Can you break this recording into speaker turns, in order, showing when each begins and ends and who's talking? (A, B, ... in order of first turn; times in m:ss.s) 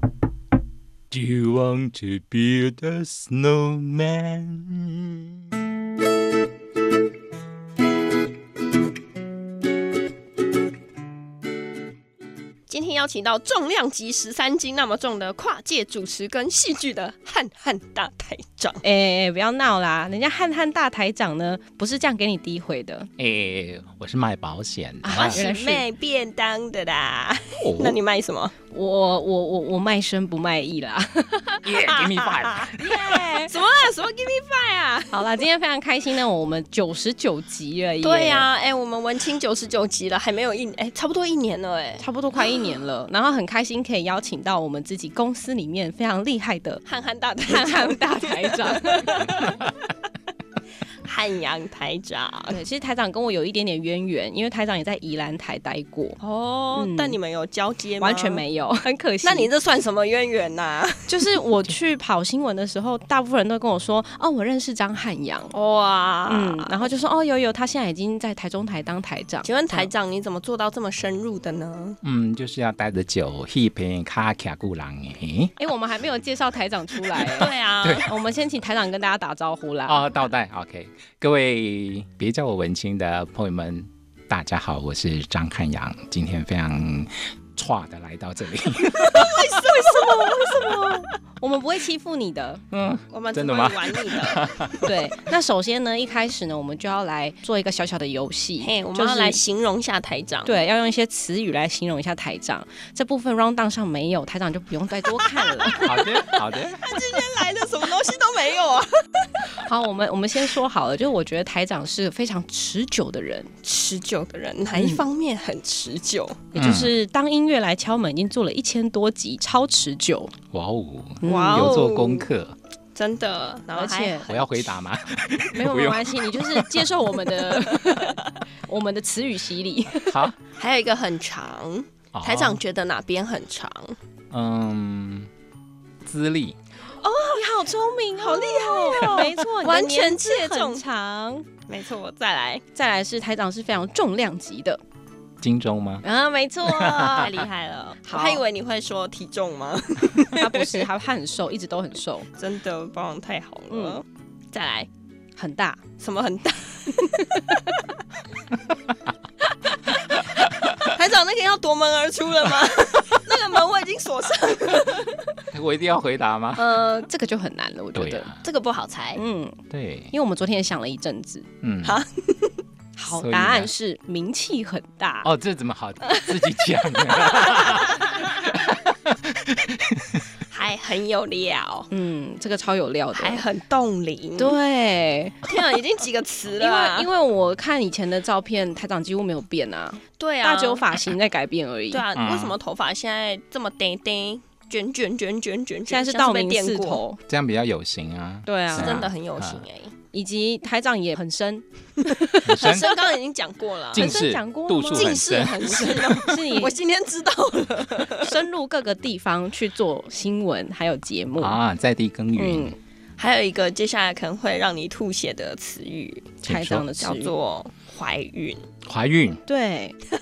0:01.1-0:05.4 A
0:12.7-0:18.8 B
0:18.8-0:23.1 C
0:23.2-0:25.4 A
0:25.0-0:25.8 C
0:25.1-0:28.5 B
0:27.6-0:28.0 A
0:28.7-0:31.6 C
0:31.6-0:32.7 A
0:31.8-0:35.4 B
0:32.8-0:33.5 C
0:35.1-0:38.5 C
0:38.0-0:42.6 B
0:42.0-0:46.8 C
0:46.8-0:49.6 B
0:47.4-0:49.4 C
0:51.0-0:52.6 B
0:52.5-0:56.2 C
0:56.2-0:58.4 B
0:56.7-0:57.2 C
0:58.0-0:59.5 C
0:59.2-1:01.4 B
1:01.1-1:05.5 C
1:05.5-1:06.9 B
1:06.3-1:09.9 C
1:09.4-1:12.0 B
1:12.0-1:15.5 A
1:15.6-1:20.0 C
1:17.2-1:18.1 B
1:17.8-1:18.1 A
1:19.9-1:29.4 A
1:29.0-1:30.7 B
1:29.1-1:32.6 C
1:32.7-1:34.7 A
1:33.1-1:34.4 B
1:34.8-1:39.4 C
1:38.6-1:40.6 B
1:40.4-1:46.0 C
1:45.2-1:49.5 B
1:45.8-1:47.0 A
1:49.4-1:53.5 C
1:53.6-1:56.5 B
1:54.8-1:55.0 C
1:56.5-2:00.3 C
1:56.6-1:56.9 A
2:00.5-2:02.6 A
2:01.2-2:01.8 C
2:01.2-2:02.3 B
2:02.9-2:04.7 B
2:03.7-2:04.3 C
2:04.3-2:07.0 A
2:05.5-2:10.2 C
2:07.7-2:08.1 B
2:10.0-2:10.4 A
2:10.6-2:14.0 B
2:12.1-2:12.6 A
2:14.3-2:15.3 A
2:16.0-2:16.6 A
2:17.0-2:20.8 B
2:17.2-2:21.5 C
2:21.7-2:22.6 B
2:22.7-2:24.8 C
2:25.4-2:26.0 A
2:26.0-2:27.4 C
2:26.6-2:27.4 A
2:27.2-2:30.9 B
2:28.0-2:28.4 C
2:30.3-2:32.3 C
2:32.4-2:34.9 B
2:33.7-2:34.0 C
2:35.4-2:35.8 C
2:36.0-2:37.7 B
2:37.0-2:37.6 C
2:40.4-2:45.3 B
2:45.5-2:46.7 A
2:46.6-2:48.3 C
2:47.9-2:48.4 A
2:48.4-2:49.2 B
2:49.2-2:49.6 C
2:49.7-2:50.1 A
2:50.1-2:51.5 C
2:51.6-2:52.0 A
2:51.8-2:52.6 B
2:53.0-2:55.3 C
2:53.1-2:53.7 A
2:55.2-3:00.2 A
2:56.0-2:56.3 C
2:57.2-2:57.7 C
3:00.5-3:01.9 B
3:01.9-3:03.4 C
3:03.1-3:04.6 B
3:04.4-3:05.4 C
3:05.4-3:07.1 B
3:06.6-3:12.0 C
3:10.2-3:11.0 B
3:11.9-3:17.0 B
3:12.1-3:12.6 A
3:15.9-3:17.2 C
3:17.3-3:19.6 A
3:18.4-3:19.0 C
3:18.7-3:19.9 B
3:20.1-3:22.9 C
3:22.4-3:22.9 A
3:22.5-3:24.1 B
3:23.9-3:25.8 A
3:23.9-3:26.7 C
3:24.9-3:28.4 B
3:28.2-3:31.6 C
3:31.4-3:32.7 A
3:32.4-3:32.8 C
3:33.2-3:36.4 B
3:36.4-3:36.9 A
3:36.4-3:37.3 C
3:37.0-3:38.6 B
3:38.8-3:39.4 A
3:39.5-3:40.0 C